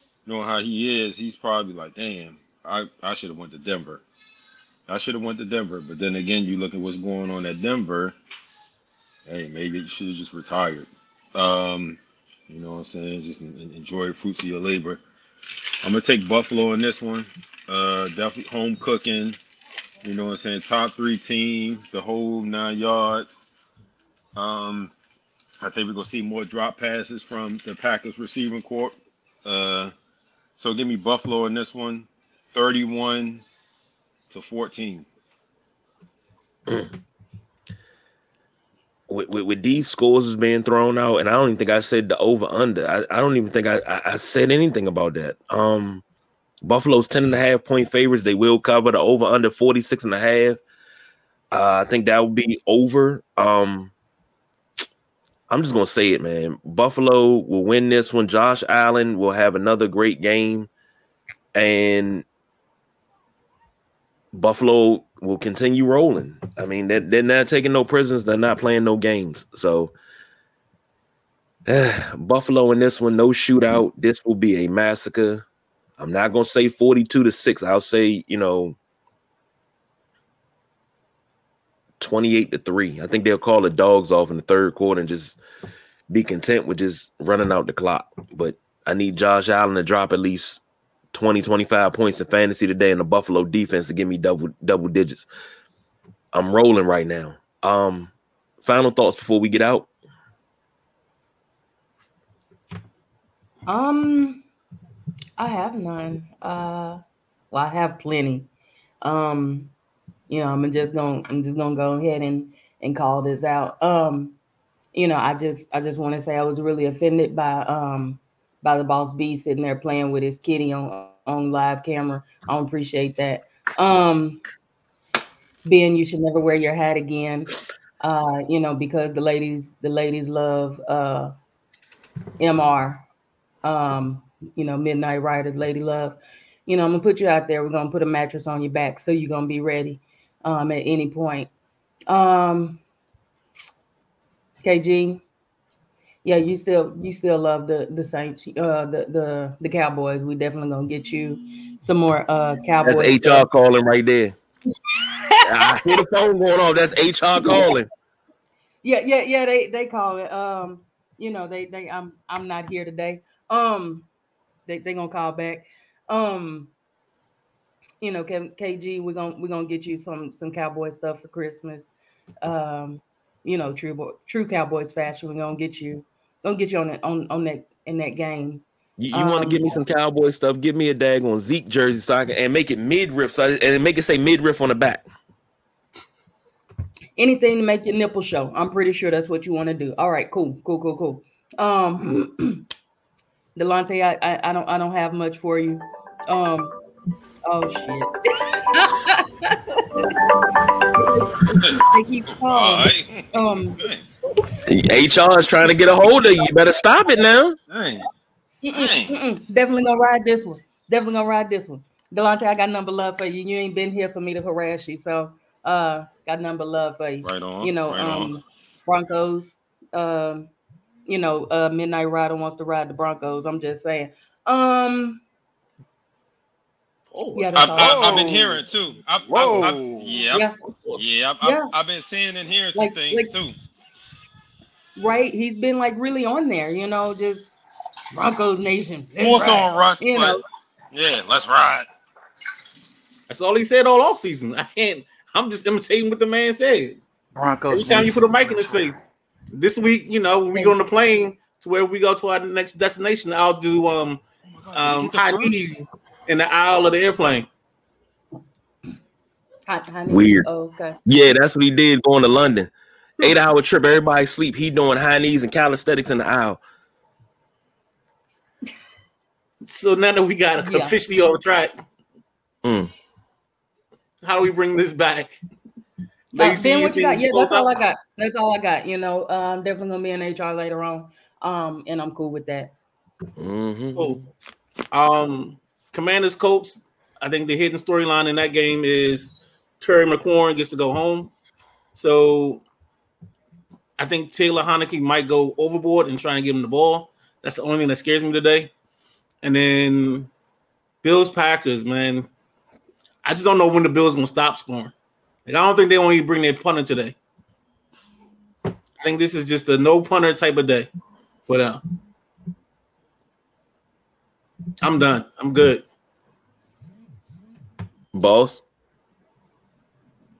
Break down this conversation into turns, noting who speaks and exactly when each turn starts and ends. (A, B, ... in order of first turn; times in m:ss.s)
0:00.2-0:04.0 A
0:04.9-0:08.2 A
0:09.2-0:15.0 A
0:15.8-0:19.4 A
0:20.0-0:23.4 A
0:24.3-0:24.9 A
0:25.6-0:29.9 A
0:30.6-0:33.4 A
0:34.3-0:35.1 A
0:39.1-0:46.0 B
0:46.6-0:50.6 B
0:51.5-0:53.9 B
0:55.5-1:00.7 B
1:01.5-1:02.2 B
1:04.3-1:09.9 B
1:11.6-1:15.4 B
1:16.0-1:18.8 B
1:22.0-1:25.4 B
1:26.1-1:30.6 B
1:31.1-1:35.3 B
1:36.3-1:38.1 B
1:38.6-1:39.9 B
1:43.6-1:44.4 C
1:45.4-1:47.0 C
1:47.5-1:48.5 C
1:49.0-1:49.7 C
1:50.3-1:54.4 C
1:54.9-2:04.4 C
2:05.6-2:11.3 C
2:12.4-2:13.0 C
2:13.6-2:21.5 C
2:22.1-2:22.8 C
2:24.6-2:25.2 C
2:26.2-2:33.5 C
2:32.8-2:34.3 B
2:34.8-2:35.7 C
2:35.4-2:37.9 B
2:37.4-2:37.7 C
2:38.8-2:44.1 C
2:44.7-2:46.7 C
2:48.0-2:51.9 C
2:52.4-2:59.8 C
2:59.0-3:05.0 B
3:07.2-3:12.6 C
3:13.6-3:16.7 C
3:17.4-3:20.0 C
3:21.0-3:21.2 C
3:21.7-3:23.8 C
3:22.4-3:24.0 A
3:24.7-3:27.6 B
3:27.7-3:28.1 A
3:28.6-3:40.5 C
3:28.7-3:29.2 A
3:37.2-3:38.4 A
3:41.1-3:45.2 C
3:47.3-3:48.0 C
3:47.5-3:53.6 A
3:47.8-3:48.6 D
3:49.3-3:50.3 D
3:51.4-3:51.7 C
3:52.7-3:53.3 C
3:55.0-3:57.5 C
3:58.1-4:00.4 C
3:59.2-4:00.4 A
4:00.9-4:01.9 A
4:03.3-4:07.0 E
4:07.3-4:08.8 D
4:07.7-4:14.2 E
4:14.5-4:15.6 A
4:14.7-4:17.5 E
4:19.7-4:21.0 C
4:20.1-4:20.5 B
4:21.0-4:26.6 B
4:29.6-4:31.7 E
4:30.6-4:31.0 C
4:32.6-4:32.9 B
4:34.2-4:35.4 E
4:36.3-4:37.7 E
4:36.4-4:42.7 C
4:43.4-4:44.2 B
4:44.0-4:44.2 E
4:44.9-4:51.3 E
4:51.9-4:52.6 E
4:54.0-4:58.7 E
4:59.4-5:00.3 E
5:01.0-5:02.3 E
5:03.2-5:04.9 E
5:05.4-5:07.2 E
5:09.0-5:10.9 E
5:11.4-5:11.8 E
5:14.8-5:15.8 E
5:18.1-5:18.6 B